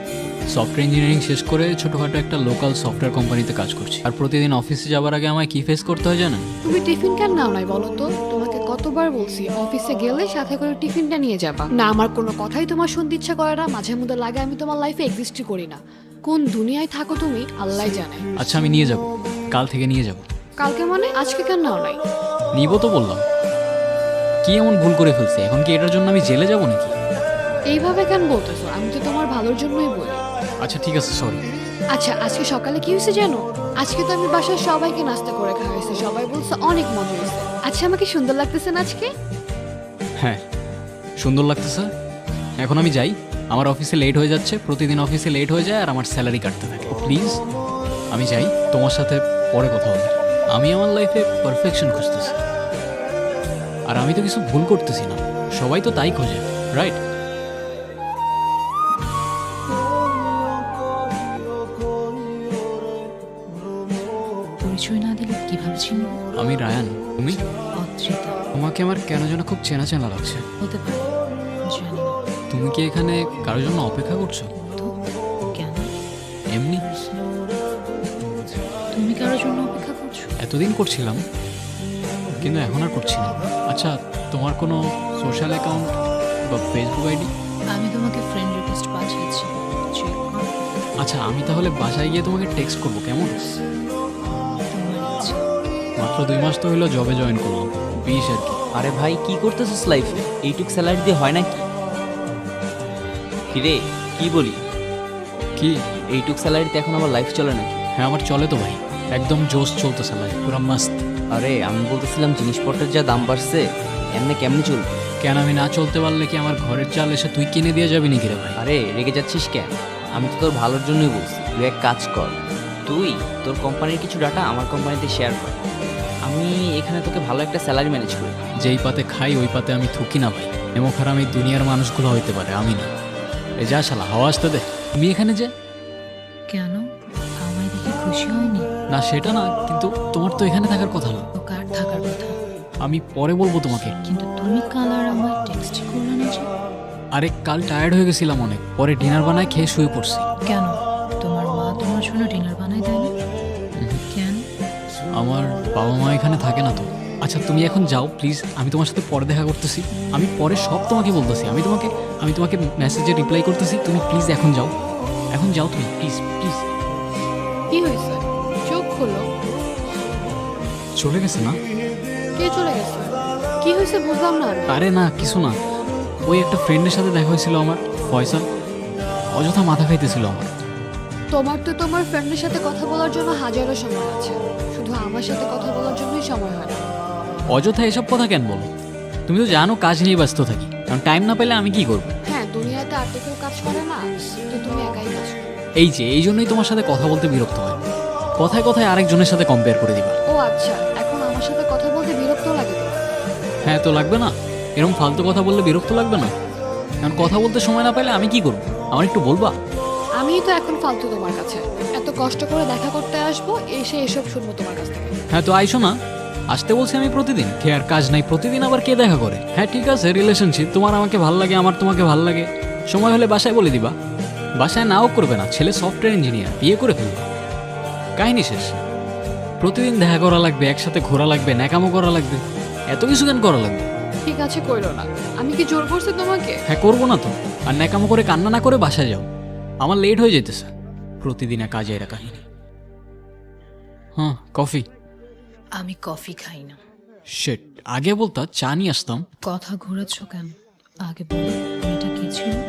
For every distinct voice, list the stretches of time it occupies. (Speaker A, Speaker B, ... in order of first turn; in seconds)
Speaker A: 0.5-6.5, 18.4-20.2, 22.6-23.2, 24.4-26.9, 30.6-31.4, 41.2-41.9, 42.6-47.4, 48.1-52.4, 53.9-57.0, 66.4-67.4, 68.5-70.4, 72.5-74.5, 76.5-76.8, 80.4-81.2, 82.4-85.9, 86.5-87.3, 91.0-93.4, 96.0-98.6, 108.0-111.0, 115.2-118.6, 128.6-132.9, 133.6-135.5, 138.9-141.2, 142.8-143.9, 147.1-150.3, 155.2-164.7, 165.3-166.7, 171.0-171.6, 174.7-175.6, 176.3-178.4, 179.3-180.5, 187.5-188.7, 189.3-192.2, 195.8-197.8, 198.4-200.2, 203.7-206.3, 207.0-209.6, 215.3-215.9, 216.5-223.9, 224.6-227.3, 228.2-228.8, 229.6-233.9, 236.7-239.3, 239.8-242.4, 244.2-244.8, 247.4-249.2
Speaker B: 6.7-18.2, 20.6-22.0, 27.7-30.2, 31.9-39.1, 167.7-169.2, 172.4-174.8, 181.3-186.8, 192.3-195.5, 200.3-203.1, 210.2-215.1, 234.2-236.6
Speaker C: 64.6-66.2, 67.8-68.4, 70.6-71.2, 71.7-72.2, 74.6-74.9, 75.5-75.9, 79.0-80.3, 87.8-90.5, 94.7-95.4, 136.5-136.8, 137.4-138.7, 141.4-142.4, 144.0-146.5, 150.5-153.1, 154.1-154.4, 245.8-246.8, 249.5-250.5, 251.1-252.6
Speaker D: 98.7-101.6, 103.5-104.6, 106.1-107.8, 111.3-115.0, 118.6-125.6, 126.2-128.4